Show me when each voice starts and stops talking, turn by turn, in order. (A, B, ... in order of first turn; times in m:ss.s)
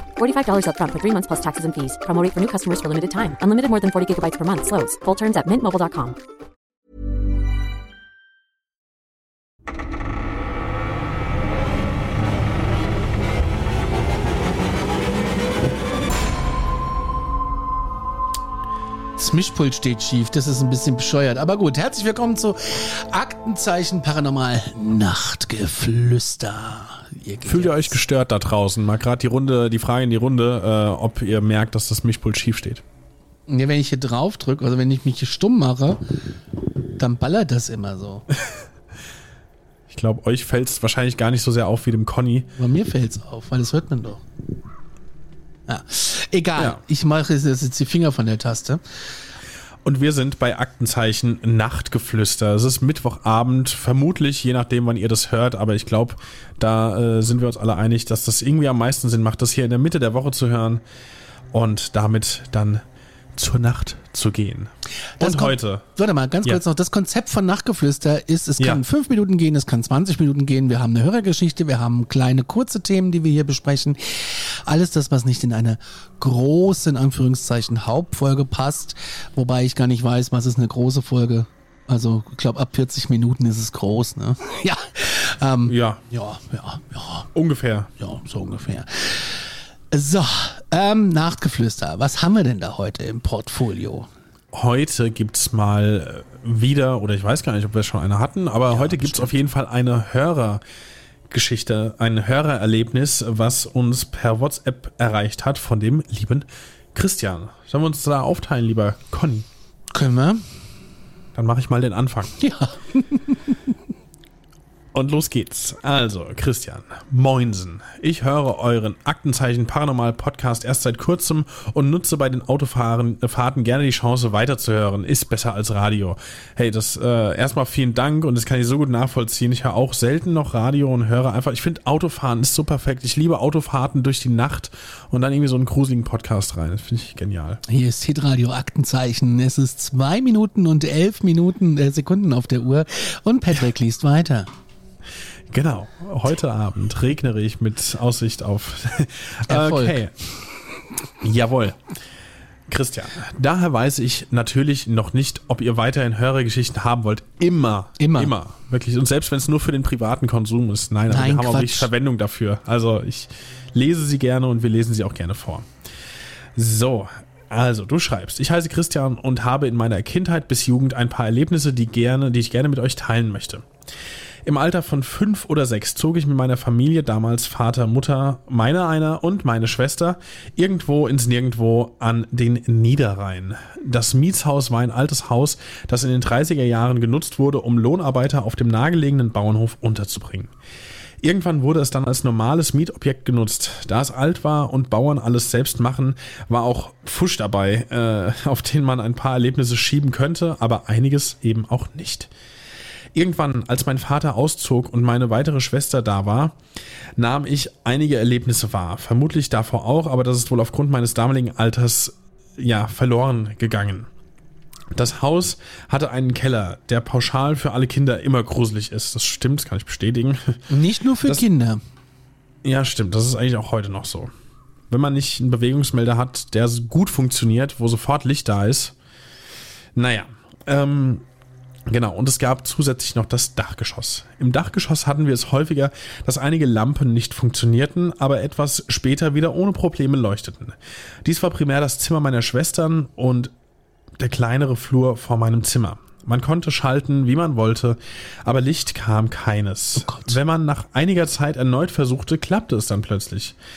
0:00.2-0:06.2 A
0:19.2-0:28.0 B
0:27.4-0:32.8 C
0:33.5-0:36.0 B
0:37.0-0:38.3 B
0:39.9-0:42.5 C
0:42.6-0:44.2 B
0:45.7-0:48.8 B
0:49.8-1:00.8 C
1:01.5-1:02.8 C
1:03.4-1:05.8 C
1:05.2-1:27.3 B
1:25.7-1:26.0 C
1:27.4-1:27.9 C
1:28.0-1:34.1 B
1:34.5-1:40.6 C
1:38.7-1:39.3 B
1:41.3-1:49.5 C
1:49.9-1:50.4 B
1:51.4-1:52.4 C
1:52.4-1:53.6 B
1:54.9-2:17.6 C
2:17.7-2:24.5 B
2:25.5-2:30.1 C
2:29.5-2:30.1 B
2:31.2-2:31.8 C
2:32.7-2:45.7 C
2:38.0-2:38.4 B
2:41.1-2:41.9 B
2:46.6-2:53.7 C
2:54.5-3:10.5 C
3:11.2-3:22.3 C
3:23.2-3:26.6 C
3:27.2-3:34.1 C
3:34.9-3:40.6 C
3:40.7-3:41.8 B
3:42.6-3:44.3 C
3:44.9-3:49.0 C
3:50.0-3:51.3 C
3:51.9-4:03.5 C
4:04.2-4:13.6 C
4:10.0-4:10.4 B